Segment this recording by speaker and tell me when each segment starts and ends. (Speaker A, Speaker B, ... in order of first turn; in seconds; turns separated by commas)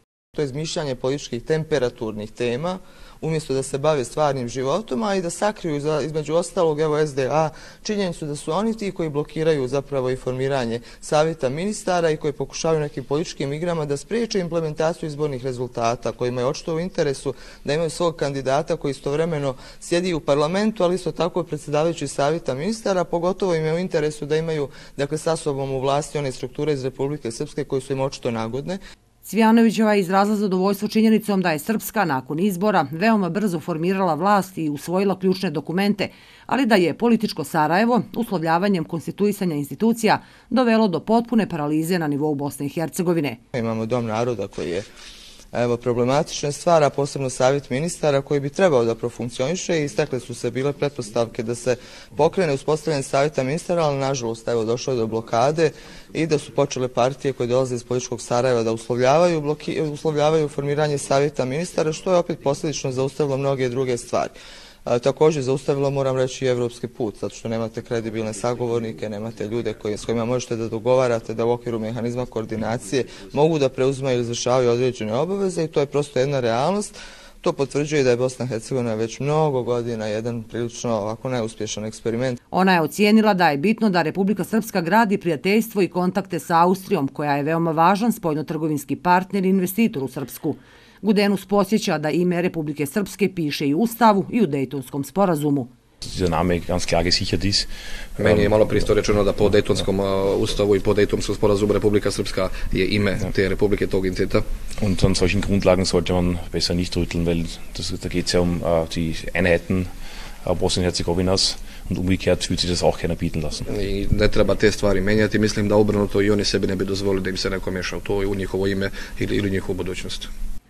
Speaker A: 0.3-28.8, Speaker B: 29.2-43.4, Speaker A: 43.5-44.8, Speaker A: 45.5-64.3, Speaker A: 64.8-82.4, Speaker B: 82.5-95.7, Speaker C: 96.0-98.8, Speaker D: 98.2-104.4, Speaker C: 104.8-109.9, Speaker C: 110.4-113.7, Speaker D: 113.7-120.3